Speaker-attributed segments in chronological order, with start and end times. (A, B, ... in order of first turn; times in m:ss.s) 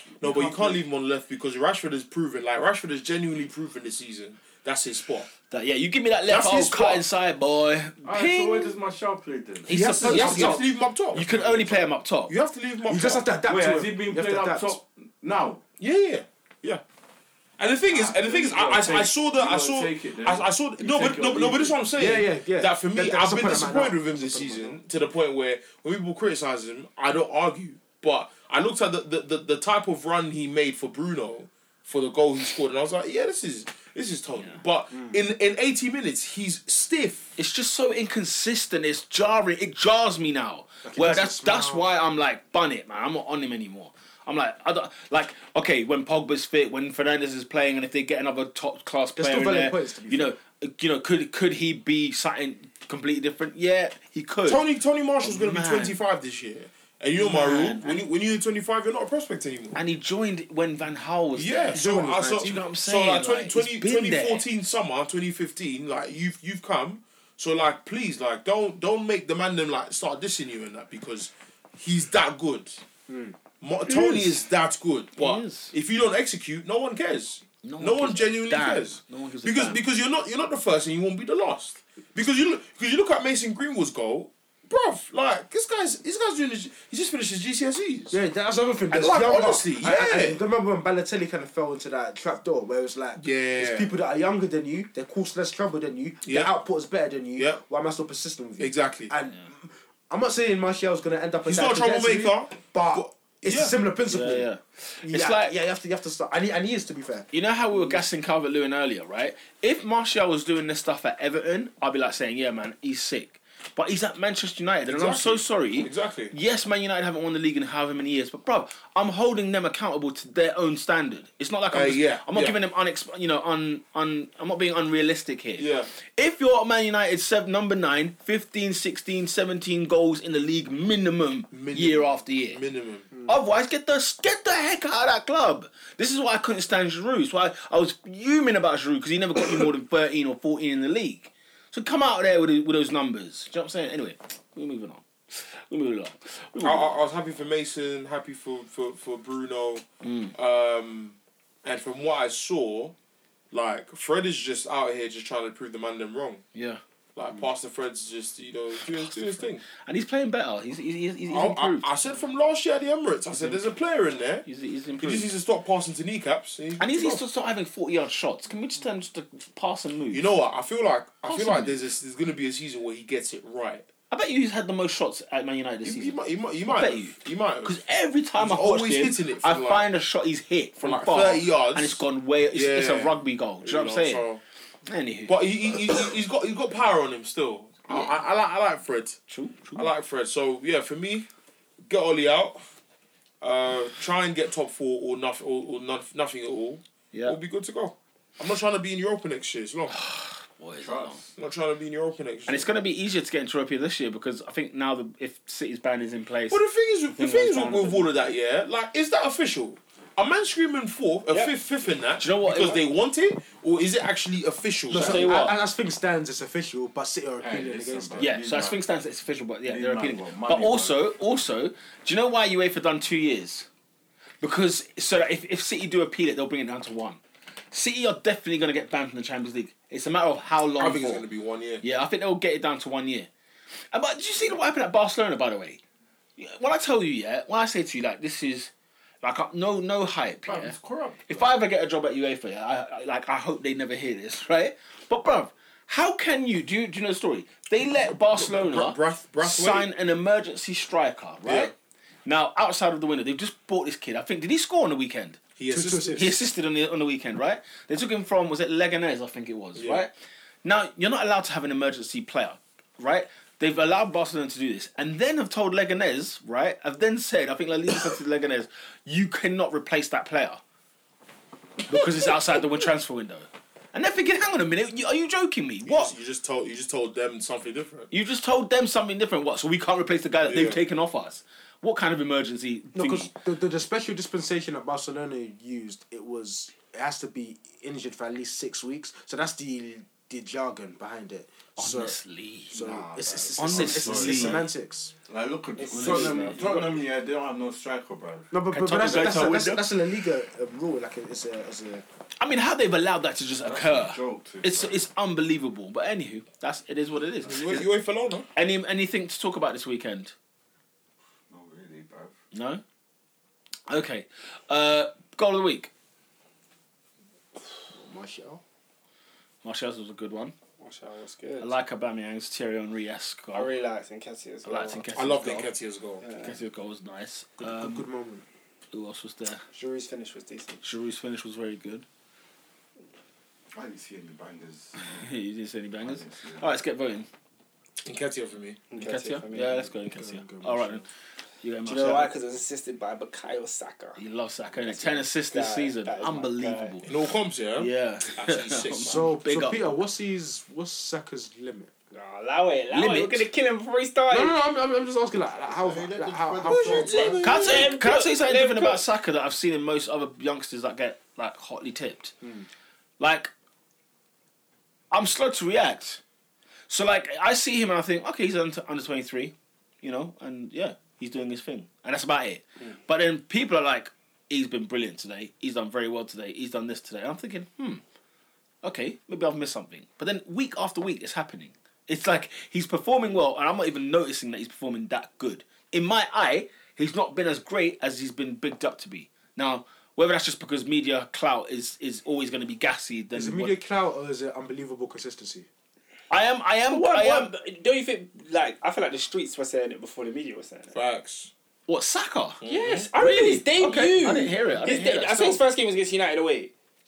0:00.2-0:00.8 A
0:00.2-0:05.3 B
0:05.5-0:08.8 C
0:06.3-0:07.0 B
0:08.0-0:09.7 A
0:09.7-0:10.6 D
0:09.7-0:12.4 C
0:09.7-0:13.4 B
0:12.9-0:14.8 D
0:13.4-0:15.6 A
0:15.8-0:16.8 B
0:17.6-0:37.3 B
0:17.9-0:21.8 A
0:22.0-0:24.8 D
0:34.9-0:35.2 D
0:37.4-0:54.6 C
0:40.8-0:41.9 D
0:49.2-0:50.4 D
0:54.5-0:59.8 B
0:55.2-0:56.0 C
0:57.2-0:58.1 C
0:59.7-1:04.5 C
1:01.4-1:12.8 B
1:01.7-1:02.6 D
1:13.1-1:13.4 D
1:13.6-1:28.2 B
1:15.2-1:15.7 C
1:17.6-1:19.8 C
1:28.1-1:44.5 D
1:28.9-1:30.4 B
1:33.2-1:33.9 B
1:36.2-1:36.5 B
1:37.4-1:37.6 B
1:38.6-1:39.1 B
1:41.4-1:43.8 B
1:44.1-1:45.6 C
1:45.0-1:48.0 D
1:47.3-2:12.6 C
1:54.9-1:56.3 B
2:01.7-2:02.6 B
2:05.6-2:05.9 B
2:11.5-2:13.1 B
2:13.2-2:27.0 C
2:26.6-2:33.0 B
2:30.0-2:30.3 C
2:33.5-2:36.4 B
2:36.5-2:36.8 C
2:37.2-2:39.6 B
2:38.7-2:41.9 C
2:41.3-2:44.5 B
2:43.3-2:43.6 C
2:44.5-2:45.3 C
2:45.0-2:47.2 B
2:46.8-2:50.2 C
2:50.1-2:53.9 B
2:51.2-2:51.8 C
2:54.1-3:04.3 C
2:55.8-2:57.8 B
2:58.4-2:59.9 B
3:00.8-3:04.4 B
3:04.9-3:05.9 C
3:05.3-3:09.2 B
3:09.3-3:09.9 C
3:09.8-3:11.3 B
3:11.9-3:12.7 B
3:13.4-3:20.0 B
3:17.1-3:17.4 C
3:19.9-3:21.2 C
3:20.8-3:21.3 A
3:21.4-3:22.8 B
3:22.5-3:28.1 C
3:26.5-3:35.4 B
3:32.2-3:32.8 C
3:34.9-3:38.3 D
3:34.9-3:35.6 C
3:37.4-3:38.8 A
3:38.2-3:43.7 C
3:39.6-3:41.0 A
3:44.4-3:47.2 C
3:47.7-3:51.3 C
3:50.8-3:51.8 B
3:51.8-3:53.3 C
3:53.9-3:55.8 C
3:56.4-4:00.8 C
4:00.5-4:01.5 A
4:01.3-4:11.7 C
4:08.3-4:09.9 B
4:11.4-4:11.7 B
4:12.3-4:15.4 C
4:15.6-4:16.3 B
4:15.7-4:16.4 D
4:16.1-4:20.1 C
4:19.8-4:20.0 B
4:20.6-4:30.6 C
4:31.9-4:36.1 C
4:35.8-4:38.1 B
4:38.1-4:43.3 C
4:40.5-4:40.8 B
4:42.9-4:52.2 D
4:51.8-4:52.7 C
4:52.7-4:55.1 D
4:52.7-4:54.7 A
4:53.6-4:54.6 C
4:55.3-4:58.5 A
4:55.8-4:56.7 E
4:55.9-4:56.9 C
4:58.5-5:02.0 D
4:58.7-4:59.9 C
5:02.4-5:07.9 C
5:03.6-5:05.0 A
5:07.4-5:08.5 B
5:08.6-5:10.3 C
5:11.5-5:12.4 A
5:12.5-5:12.8 C
5:13.9-5:15.9 C
5:18.0-5:18.6 D
5:19.6-5:20.6 C
5:20.8-5:21.7 E
5:21.6-5:23.7 C
5:23.5-5:25.1 E
5:24.7-5:25.7 C
5:25.1-5:26.2 B
5:26.2-5:26.6 E
5:26.4-5:28.0 C
5:27.6-5:28.4 D
5:28.9-5:29.6 C
5:29.7-5:30.8 E
5:30.8-5:32.0 C
5:33.7-5:35.3 A
5:35.0-5:37.3 C
5:36.0-5:36.8 A
5:38.0-5:38.8 B
5:38.9-5:39.9 E
5:38.9-5:41.0 C
5:40.1-5:41.1 D
5:41.6-5:42.3 C
5:41.9-5:44.2 E
5:44.2-5:47.1 C
5:44.8-5:47.0 E
5:47.0-5:49.4 B
5:47.8-5:50.0 C
5:49.0-5:51.9 D
5:52.1-5:54.6 E
5:52.9-5:53.5 C
5:54.3-5:57.4 D
5:55.8-5:57.7 A
5:56.7-5:59.0 E
5:57.4-6:02.3 C
6:03.2-6:03.5 C
6:05.1-6:06.2 C
6:06.9-6:18.0 C
6:18.8-6:33.8 C
6:33.3-6:35.7 D
6:36.3-6:37.5 C
6:36.9-6:41.0 E
6:40.9-6:41.5 B
6:41.9-6:42.6 C
6:42.6-6:43.1 B
6:42.7-6:46.7 E
6:43.2-6:45.6 C